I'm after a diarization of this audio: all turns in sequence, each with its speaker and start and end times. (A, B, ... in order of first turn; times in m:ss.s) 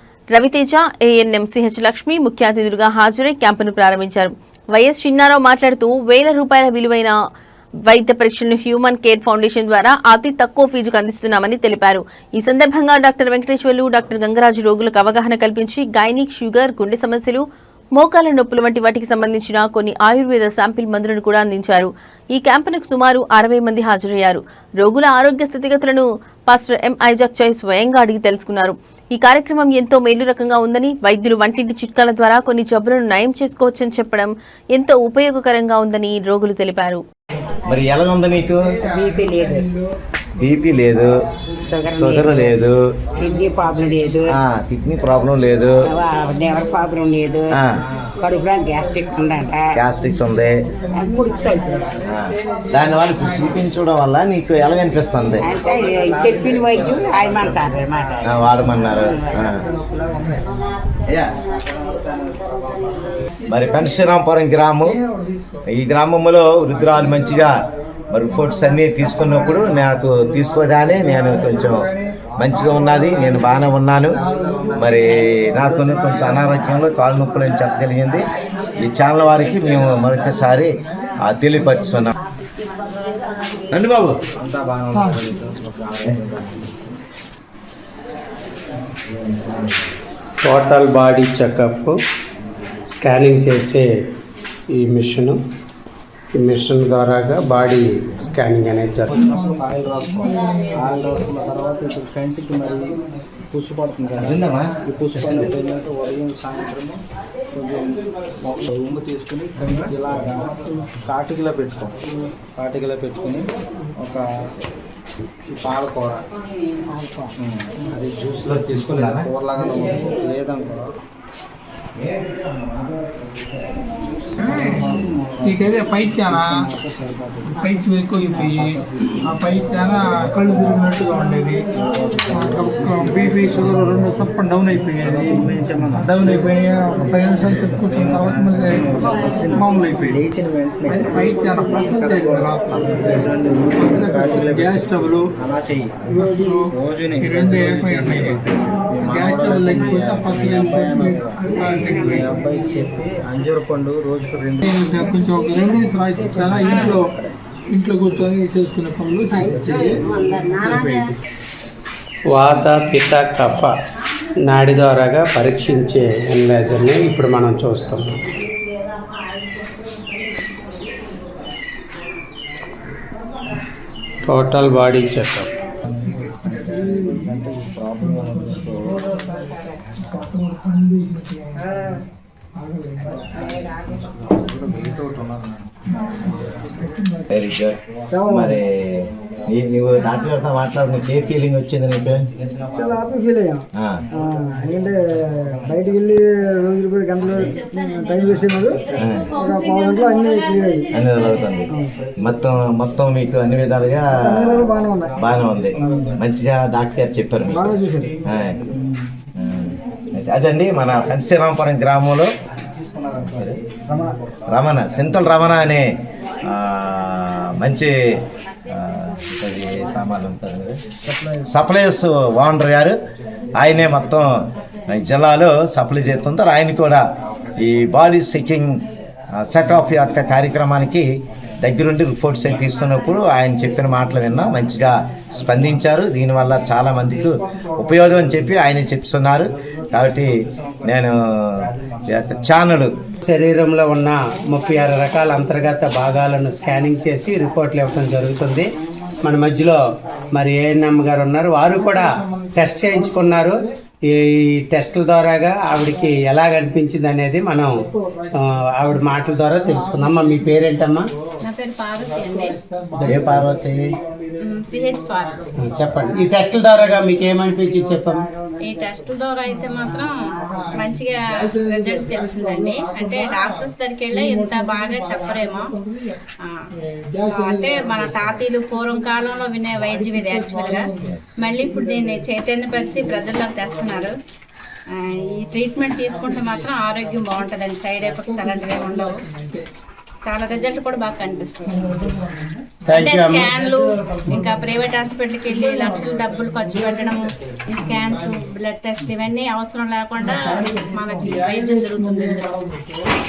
0:00.3-0:07.1 A
0:07.8-0:17.4 A
0:18.0-0:37.0 A
0:37.6-0:38.7 B
0:38.6-0:40.8 C
0:38.8-0:39.6 D
0:40.4-0:41.1 B
0:41.6-0:42.5 D
0:41.9-0:42.8 B
0:43.2-0:44.4 D
0:43.2-0:44.2 C
0:44.3-0:45.9 B
0:45.8-0:47.6 D
0:46.3-0:46.6 C
0:47.5-0:47.8 B
0:47.8-0:48.1 E
0:48.2-0:49.8 D
0:49.7-0:50.6 B
0:50.8-0:53.7 C
0:50.9-0:52.0 D
0:52.0-0:55.5 B
0:55.4-0:59.6 D
0:55.5-1:00.4 E
0:58.2-0:59.6 B
1:01.3-1:03.2 E
1:03.4-1:04.2 C
1:03.5-1:05.0 B
1:04.8-1:05.7 C
1:05.7-1:07.5 B
1:06.7-1:07.5 C
1:08.1-1:14.2 B
1:08.2-1:16.8 C
1:12.4-1:13.2 E
1:14.0-1:16.1 E
1:14.8-1:22.1 B
1:19.3-1:22.1 C
1:23.7-1:24.2 B
1:24.4-1:26.9 E
1:24.9-1:25.5 C
1:30.4-1:31.9 F
1:32.9-1:33.8 F
1:34.7-1:35.4 F
1:36.4-1:39.2 F
1:39.0-1:47.0 E
1:39.2-1:41.3 C
1:44.2-1:45.5 B
1:47.5-1:52.0 E
1:52.5-1:54.2 E
1:55.5-1:56.3 E
1:57.4-2:00.8 E
1:58.2-1:59.3 B
2:04.4-2:06.7 C
2:04.4-2:07.6 E
2:07.5-2:11.7 C
2:08.2-2:14.3 E
2:12.3-2:25.3 C
2:15.0-2:35.3 E
2:26.0-2:32.5 C
2:31.4-2:32.2 D
2:34.6-2:37.2 C
2:36.2-2:37.2 E
2:36.2-2:37.0 D
2:36.6-2:37.0 G
2:37.7-2:41.2 C
2:38.0-2:38.3 E
2:39.3-2:40.0 E
2:39.3-2:41.0 D
2:42.3-2:43.7 F
2:44.4-2:48.1 F
2:54.2-2:55.5 F
2:56.0-3:02.0 C
2:56.1-2:59.1 E
3:02.6-3:05.1 C
3:03.2-3:06.8 E
3:05.8-3:07.3 C
3:07.3-3:08.6 B
3:08.1-3:08.6 H
3:09.5-3:12.2 B
3:12.8-3:13.6 H
3:14.2-3:15.0 H
3:15.6-3:18.8 H
3:17.2-3:17.6 E
3:18.1-3:19.0 E
3:18.9-3:19.4 B
3:19.4-3:20.9 H
3:20.9-3:28.6 B
3:24.2-3:25.2 H
3:24.5-3:26.2 E
3:25.8-3:26.1 H
3:27.5-3:29.0 E
3:27.5-3:28.1 H
3:29.4-3:32.3 B
3:32.5-3:33.7 E
3:34.5-3:35.8 B
3:36.4-3:37.9 B
3:38.7-3:40.8 B
3:41.4-3:43.0 B
3:43.6-3:44.3 B
3:44.9-3:47.0 B
3:47.6-3:48.8 B
3:49.4-3:51.0 B
3:51.6-4:00.3 B
3:57.0-3:58.8 E
3:59.7-4:01.1 E
4:00.8-4:01.2 B
4:01.6-4:02.7 E
4:02.1-4:02.9 B
4:03.2-4:08.6 F
4:09.2-4:09.8 F
4:10.3-4:13.5 F
4:11.6-4:13.7 C
4:14.1-4:17.7 F
4:15.7-4:16.2 C
4:17.8-4:21.4 C
4:18.4-4:21.1 F
4:21.4-4:22.6 G
4:21.9-4:26.2 C
4:23.0-4:23.5 F
4:23.0-4:23.8 B
4:24.4-4:25.5 G
4:25.6-4:28.3 F
4:26.7-4:27.2 C
4:28.6-4:35.7 G
4:29.4-4:36.2 C
4:36.8-4:44.1 C
4:37.3-4:44.1 G
4:45.0-4:49.2 G
4:45.2-4:49.6 C
4:50.2-4:52.0 G
4:51.4-4:59.1 C
4:52.9-4:53.5 F
4:52.9-5:02.5 G
5:00.2-5:03.1 C